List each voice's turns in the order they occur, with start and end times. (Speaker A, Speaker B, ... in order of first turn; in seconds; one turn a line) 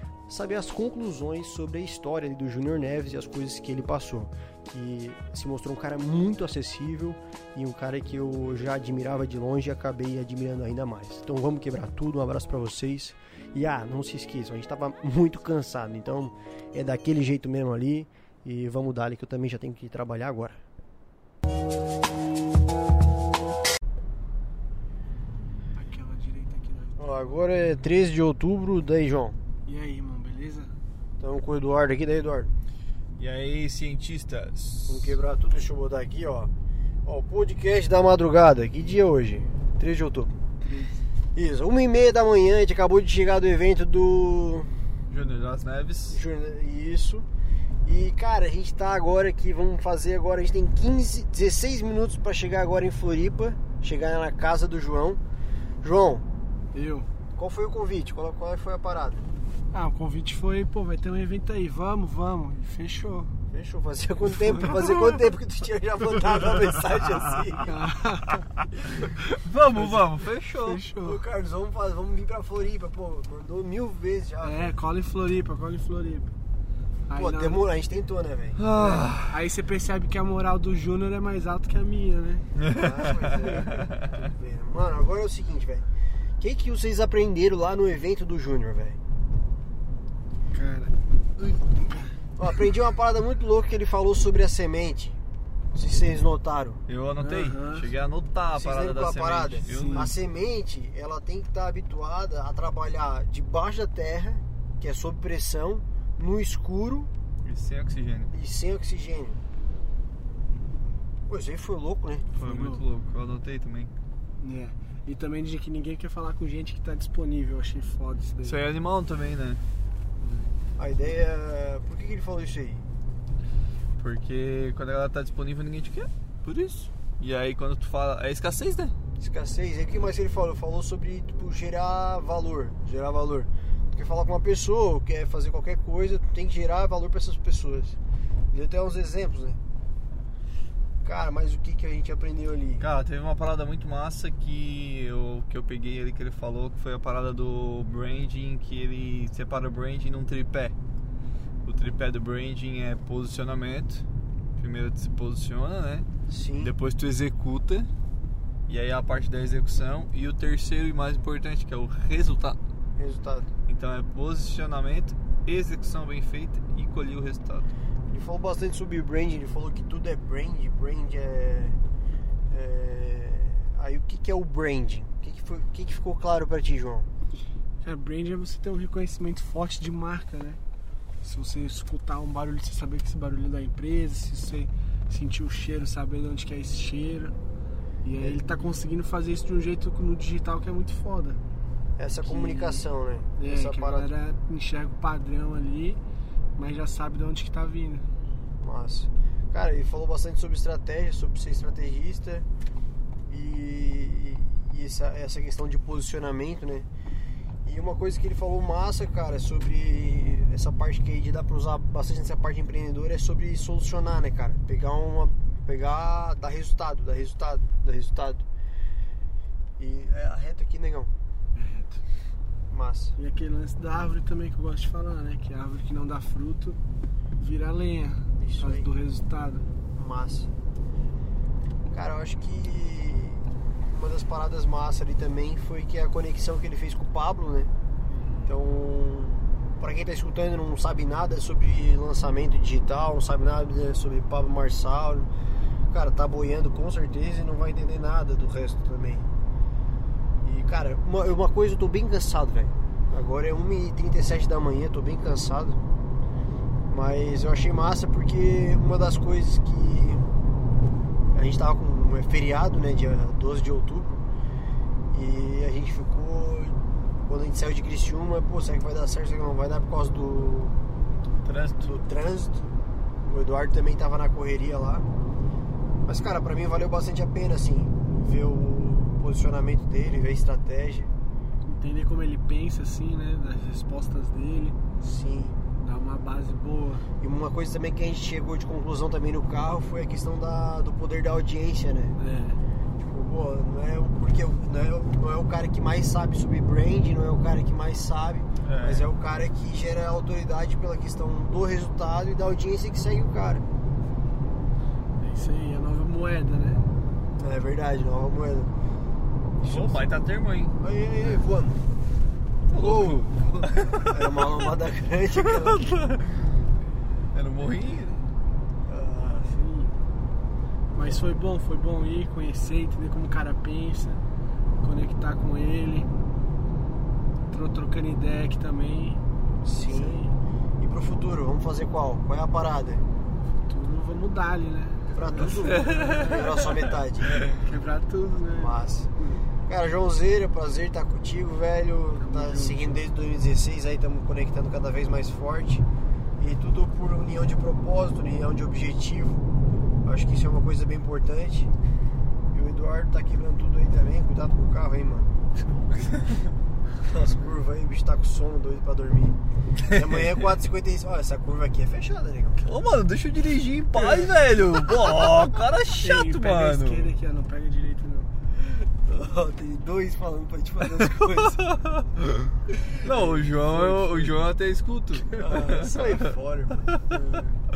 Speaker A: 0.3-20.6
Speaker B: 25.7-27.4
Speaker A: 27.0-29.4
Speaker B: 29.7-30.7
Speaker A: 31.2-32.5
Speaker C: 33.2-35.2
Speaker A: 34.9-36.5
Speaker A: 37.0-40.4
Speaker B: 40.6-41.0
Speaker A: 41.4-44.7
Speaker C: 45.1-46.2
Speaker A: 46.1-47.3
Speaker A: 47.9-55.2
Speaker A: 55.8-56.2
Speaker B: 56.7-57.1
Speaker A: 57.4-59.3
Speaker B: 59.7-63.3
Speaker A: 63.5-67.8
Speaker B: 67.7-68.5
Speaker C: 69.3-70.8
Speaker B: 70.6-71.2
Speaker A: 71.0-74.7
Speaker B: 74.4-76.3
Speaker B: 77.1-77.7
Speaker A: 77.2-78.6
Speaker C: 78.6-79.4
Speaker B: 78.7-82.5
Speaker C: 82.6-84.1
Speaker A: 82.7-85.9
Speaker A: 86.4-89.0
Speaker B: 90.5-91.0
Speaker A: 92.4-95.2
Speaker A: 95.8-96.8
Speaker C: 96.9-100.1
Speaker B: 97.2-97.9
Speaker A: 98.5-107.1
Speaker B: 99.7-100.1
Speaker C: 107.4-108.3
Speaker A: 108.3-109.4
Speaker A: 111.3-112.3
Speaker B: 112.3-112.8
Speaker C: 112.3-113.9
Speaker B: 114.4-118.7
Speaker C: 118.4-119.6
Speaker A: 120.8-122.9
Speaker C: 124.0-128.9
Speaker A: 129.2-138.0
Speaker A: 138.5-139.6
Speaker A: 141.0-142.9
Speaker C: 142.8-150.8
Speaker C: 151.7-154.1
Speaker C: 154.6-156.1
Speaker A: 156.3-156.7
Speaker C: 156.6-157.9
Speaker C: 158.7-162.6
Speaker A: 163.0-163.5
Speaker C: 163.7-167.7
Speaker A: 168.1-171.8
Speaker A: 172.5-177.1
Speaker B: 177.8-180.6
Speaker B: 181.2-187.3
Speaker B: 188.0-191.4
Speaker A: 188.2-188.5
Speaker A: 192.0-194.1
Speaker B: 192.2-192.9
Speaker B: 193.4-196.0
Speaker B: 196.6-198.1
Speaker A: 198.6-202.5
Speaker A: 203.3-206.9
Speaker A: 207.7-218.4
Speaker A: 219.8-221.1
Speaker B: 221.6-222.0
Speaker A: 222.7-223.2
Speaker B: 223.2-226.8
Speaker B: 227.4-229.7
Speaker A: 228.4-228.9
Speaker A: 229.9-230.5
Speaker A: 231.9-237.7
Speaker A: 238.5-245.3
Speaker A: 245.9-249.3
Speaker A: 250.4-255.8
Speaker A: 256.9-260.2
Speaker A: 261.3-264.2
Speaker A: 265.1-270.8
Speaker C: 271.4-271.9
Speaker A: 271.8-272.7
Speaker A: 273.3-275.1
Speaker A: 276.1-281.1
Speaker B: 281.6-284.8
Speaker A: 285.0-285.6
Speaker B: 285.8-287.1
Speaker A: 287.2-292.2
Speaker B: 292.2-292.6
Speaker A: 293.1-303.6
Speaker C: 298.6-299.1
Speaker B: 305.2-306.9
Speaker A: 307.4-308.7
Speaker A: 309.6-310.1
Speaker C: 309.6-310.8
Speaker A: 310.8-311.8
Speaker C: 312.7-314.6
Speaker A: 312.8-313.3
Speaker B: 313.0-313.7
Speaker A: 314.0-316.0
Speaker C: 315.4-316.5
Speaker C: 317.3-318.3
Speaker A: 318.9-319.5
Speaker B: 319.3-319.9
Speaker B: 320.9-324.2
Speaker B: 324.8-326.1
Speaker B: 327.5-329.2
Speaker A: 329.6-330.2
Speaker B: 329.8-330.4
Speaker A: 330.8-333.0
Speaker B: 333.6-336.5
Speaker A: 335.1-337.4
Speaker B: 337.6-339.4
Speaker A: 338.6-339.1
Speaker A: 339.7-345.8
Speaker B: 342.2-343.1
Speaker A: 346.4-349.4
Speaker A: 350.1-351.7
Speaker A: 352.5-355.3
Speaker A: 357.0-362.7
Speaker C: 362.6-367.1
Speaker B: 366.0-368.3
Speaker A: 368.9-371.6
Speaker C: 371.6-376.3
Speaker A: 372.9-374.4
Speaker A: 375.4-377.5